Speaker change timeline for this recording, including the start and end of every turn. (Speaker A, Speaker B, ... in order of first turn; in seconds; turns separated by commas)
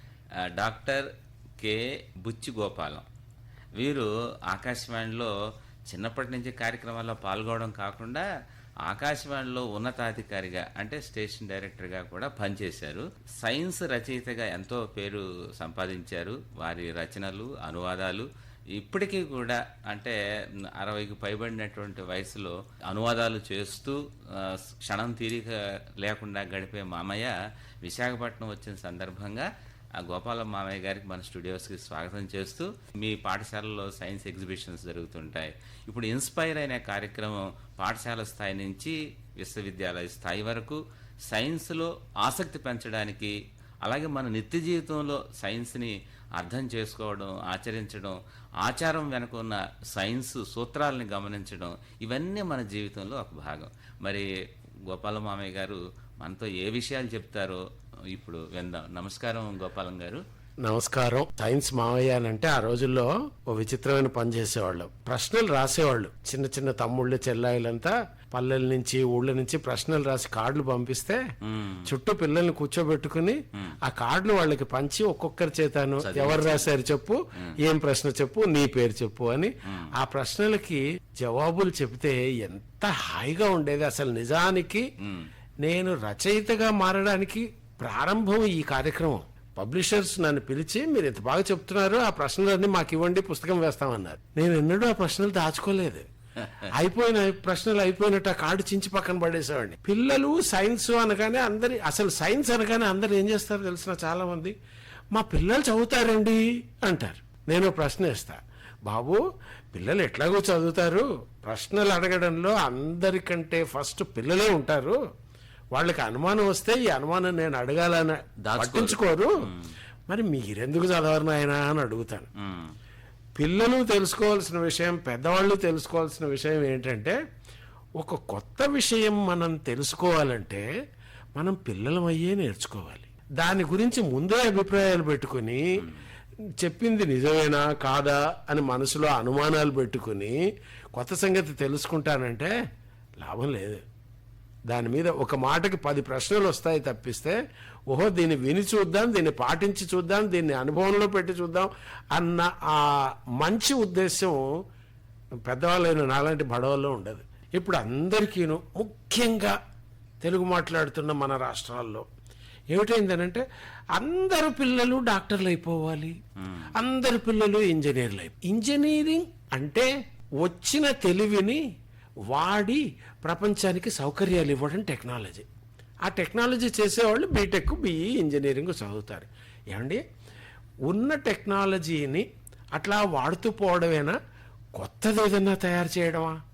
Speaker A: 0.4-1.1, Speaker A: 1.6-3.0, Speaker A: 3.8-5.3, Speaker A: 5.9-8.2, Speaker A: 8.8-20.2, Speaker A: 20.8-29.5, Speaker A: 30.0-54.3, Speaker A: 54.9-60.2, Speaker B: 60.6-71.2, Speaker A: 71.4-71.9, Speaker B: 71.8-84.9, Speaker A: 76.0-76.7, Speaker A: 79.7-79.9, Speaker A: 85.0-85.3, Speaker B: 85.6-96.0, Speaker A: 96.4-96.7, Speaker B: 96.7-104.5, Speaker B: 105.1-109.2, Speaker B: 109.7-115.0, Speaker B: 115.7-119.5, Speaker A: 118.4-119.7, Speaker B: 120.1-122.3, Speaker A: 122.4-122.7, Speaker B: 123.4-127.2, Speaker B: 128.0-130.7, Speaker B: 131.3-135.9, Speaker B: 136.6-140.3, Speaker B: 140.9-142.5, Speaker B: 143.2-143.8, Speaker B: 144.7-147.4, Speaker B: 147.9-154.5, Speaker B: 155.5-159.6, Speaker B: 160.2-162.1, Speaker B: 162.7-166.2, Speaker A: 166.4-166.7, Speaker B: 166.7-169.9, Speaker B: 170.4-171.6, Speaker B: 172.3-175.5, Speaker B: 176.0-180.0, Speaker B: 180.8-184.2, Speaker B: 184.8-186.4